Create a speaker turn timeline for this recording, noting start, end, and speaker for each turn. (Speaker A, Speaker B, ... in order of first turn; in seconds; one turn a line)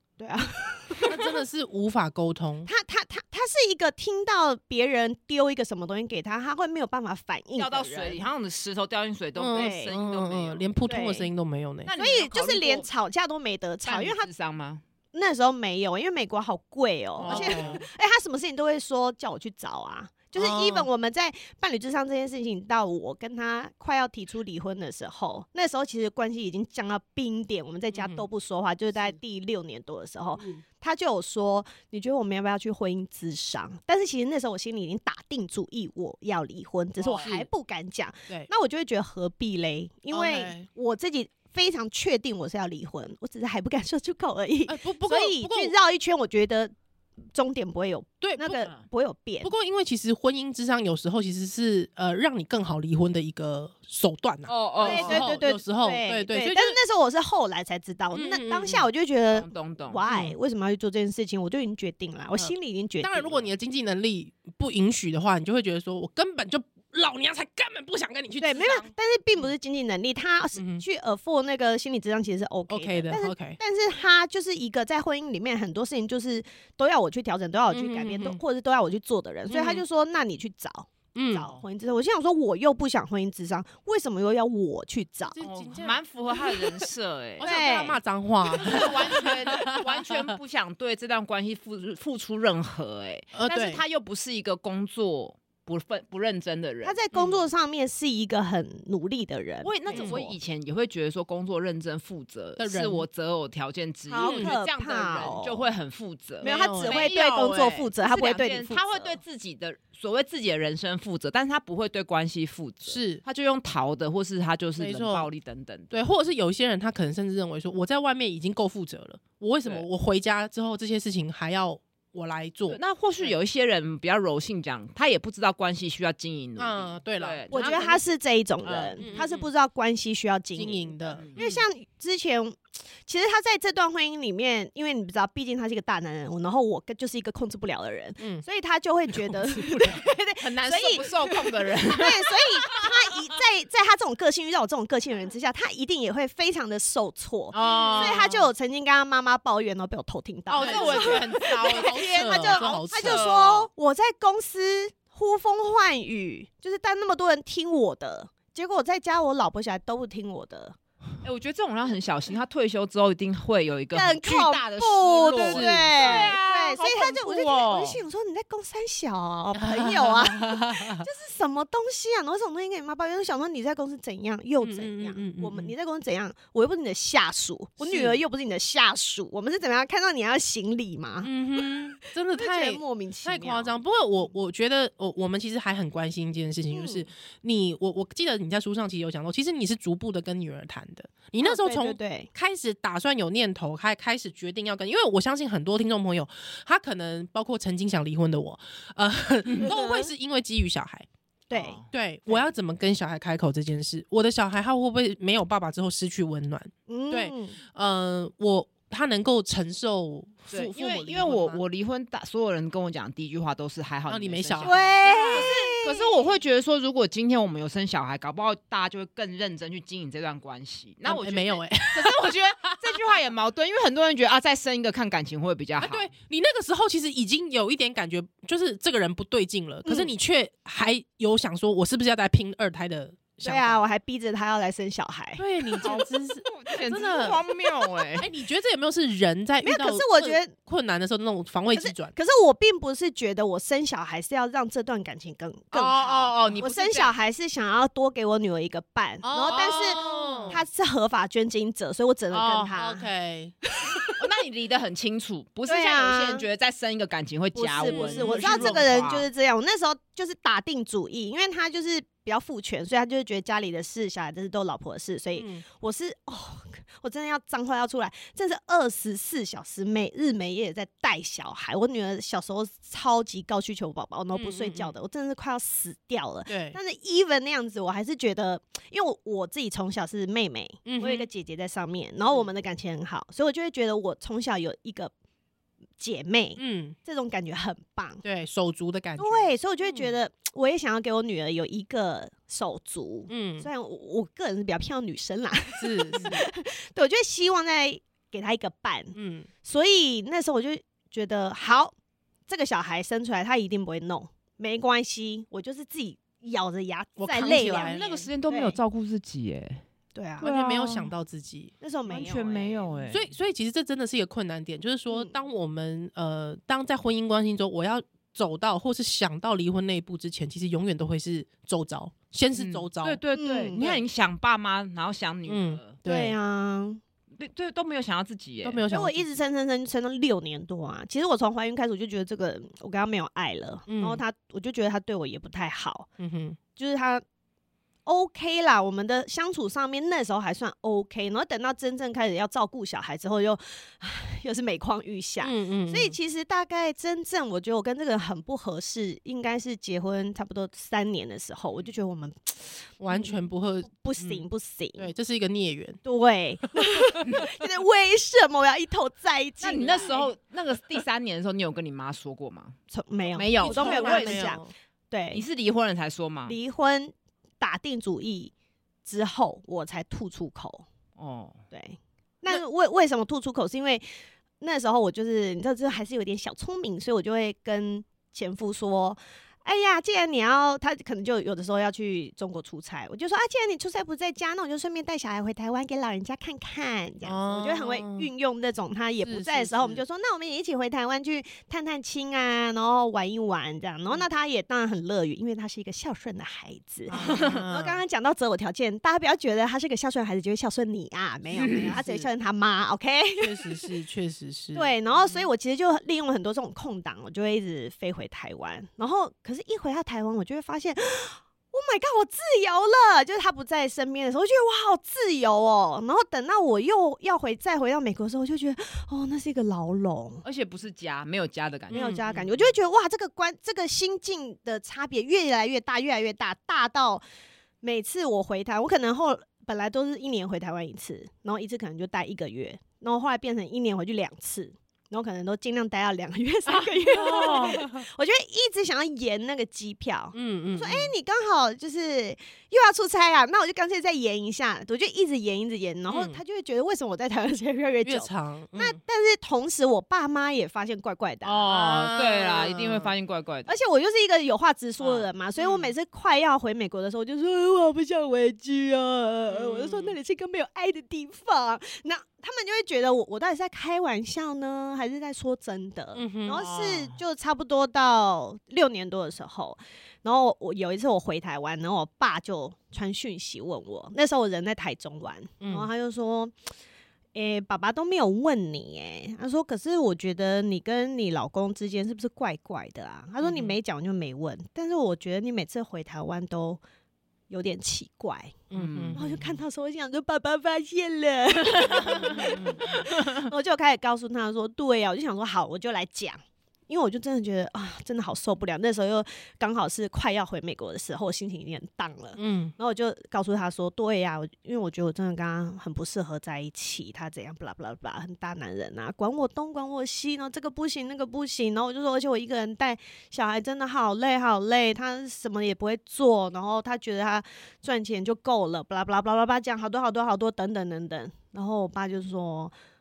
Speaker A: 0.2-1.2
Speaker B: 1.0-2.7
Speaker A: 2.6-8.2
Speaker C: 7.5-10.7
Speaker B: 9.3-11.9
Speaker A: 9.5-9.9
Speaker A: 10.8-11.3
Speaker C: 11.8-12.9
Speaker A: 12.0-14.3
Speaker C: 13.8-14.8
Speaker A: 15.1-46.7
Speaker C: 17.2-17.8
Speaker B: 17.2-17.8
Speaker B: 20.4-20.9
Speaker B: 27.9-28.2
Speaker C: 37.0-37.3
Speaker B: 37.2-37.5
Speaker B: 40.1-40.7
Speaker B: 44.7-45.7
Speaker A: 47.3-49.5
Speaker B: 48.2-48.7
Speaker B: 49.4-56.8
Speaker C: 54.5-55.3
Speaker A: 54.8-63.5
Speaker B: 58.1-58.9
Speaker C: 59.3-60.0
Speaker B: 60.1-60.4
Speaker B: 62.3-68.9
Speaker A: 68.4-85.4
Speaker B: 70.5-70.8
Speaker B: 72.7-73.6
Speaker B: 77.7-78.4
Speaker B: 79.5-79.8
Speaker B: 81.1-81.5
Speaker B: 85.3-86.4
Speaker C: 85.4-87.5
Speaker B: 87.4-90.3
Speaker A: 87.4-88.0
Speaker C: 88.5-97.0
Speaker B: 93.3-93.8
Speaker A: 96.8-100.3
Speaker C: 99.6-115.9
Speaker B: 99.9-100.2
Speaker B: 102.6-103.0
Speaker A: 104.1-105.7
Speaker B: 104.2-104.5
Speaker A: 106.4-109.2
Speaker B: 106.4-107.1
Speaker B: 112.8-113.2
Speaker B: 114.8-115.3
Speaker B: 115.9-123.3
Speaker C: 122.7-128.0
Speaker B: 126.6-127.8
Speaker A: 127.5-160.8
Speaker C: 128.6-129.1
Speaker B: 129.0-129.5
Speaker B: 130.6-131.6
Speaker C: 131.2-131.6
Speaker B: 138.2-138.4
Speaker B: 139.1-140.0
Speaker C: 140.3-142.9
Speaker C: 147.5-148.5
Speaker B: 147.6-148.3
Speaker B: 150.5-153.2
Speaker C: 150.5-153.7
Speaker C: 161.2-168.0
Speaker A: 163.9-181.8
Speaker B: 165.4-166.3
Speaker B: 169.5-171.1
Speaker B: 174.6-175.7
Speaker B: 177.8-178.2
Speaker B: 181.2-201.1
Speaker A: 182.3-183.7
Speaker A: 186.7-187.1
Speaker A: 191.4-192.3
Speaker A: 199.6-200.1
Speaker A: 201.5-202.5
Speaker C: 201.5-201.9
Speaker B: 201.9-211.6
Speaker A: 206.9-207.6
Speaker C: 210.5-226.1
Speaker B: 214.1-215.4
Speaker A: 214.6-216.2
Speaker B: 221.1-222.4
Speaker B: 225.8-233.8
Speaker A: 229.8-230.1
Speaker A: 233.4-235.9
Speaker B: 235.4-237.4
Speaker C: 235.8-238.3
Speaker B: 238.2-242.1
Speaker A: 239.6-240.5
Speaker A: 241.7-253.1
Speaker C: 245.7-247.1
Speaker B: 249.2-250.6
Speaker C: 250.0-250.6
Speaker B: 252.3-253.5
Speaker A: 253.7-254.1
Speaker C: 254.2-259.3
Speaker A: 255.7-256.4
Speaker A: 257.5-285.1
Speaker B: 257.8-258.8
Speaker B: 265.4-265.6
Speaker B: 274.3-274.9
Speaker B: 276.5-276.8
Speaker B: 280.8-281.3
Speaker A: 286.0-288.2
Speaker B: 286.6-286.9
Speaker B: 288.2-290.1
Speaker A: 289.2-301.9
Speaker B: 293.3-293.7
Speaker B: 295.8-296.5
Speaker B: 299.1-299.5
Speaker A: 302.5-308.8
Speaker B: 307.2-308.0
Speaker C: 307.7-309.8
Speaker A: 310.1-310.5
Speaker C: 310.4-311.1
Speaker B: 310.4-311.7
Speaker A: 311.8-313.0
Speaker C: 312.1-313.2
Speaker B: 313.1-323.2
Speaker A: 315.1-315.3
Speaker C: 322.5-325.9
Speaker A: 323.4-324.0
Speaker B: 325.5-326.4
Speaker A: 326.0-327.0
Speaker C: 327.3-328.8
Speaker B: 328.6-329.3
Speaker A: 328.9-336.1
Speaker B: 333.9-334.2
Speaker B: 336.2-336.6
Speaker A: 336.8-337.2
Speaker A: 338.1-353.3
Speaker B: 345.4-346.2
Speaker B: 353.0-356.0
Speaker A: 353.9-355.1
Speaker A: 356.0-360.3
Speaker C: 359.6-362.7
Speaker A: 362.9-365.4
Speaker C: 363.3-364.5
Speaker B: 363.6-364.7
Speaker C: 365.3-366.6
Speaker A: 366.4-368.5
Speaker A: 369.1-370.8
Speaker C: 371.2-371.6
Speaker A: 371.7-374.0
Speaker A: 374.6-403.9
Speaker B: 387.2-388.3
Speaker B: 389.2-390.0
Speaker B: 397.1-398.0
Speaker C: 397.1-397.6
Speaker B: 401.8-402.3
Speaker B: 403.4-404.9
Speaker A: 404.7-420.4
Speaker C: 405.2-405.4
Speaker C: 420.4-422.7
Speaker B: 421.9-422.4
Speaker A: 421.9-427.2
Speaker A: 427.8-451.6
Speaker B: 436.7-438.0
Speaker C: 437.1-437.8
Speaker B: 440.3-441.1
Speaker B: 446.1-446.4
Speaker B: 448.0-449.0
Speaker B: 451.4-453.1
Speaker C: 451.5-453.8
Speaker A: 453.6-476.5
Speaker C: 455.0-455.9
Speaker C: 459.6-460.1
Speaker B: 466.1-466.7
Speaker C: 466.6-467.2
Speaker B: 475.6-475.9
Speaker A: 477.3-486.8
Speaker B: 483.4-483.8
Speaker A: 487.5-522.7
Speaker B: 488.7-489.6
Speaker C: 488.7-489.2
Speaker B: 491.8-492.8
Speaker C: 491.9-493.4
Speaker B: 502.4-502.7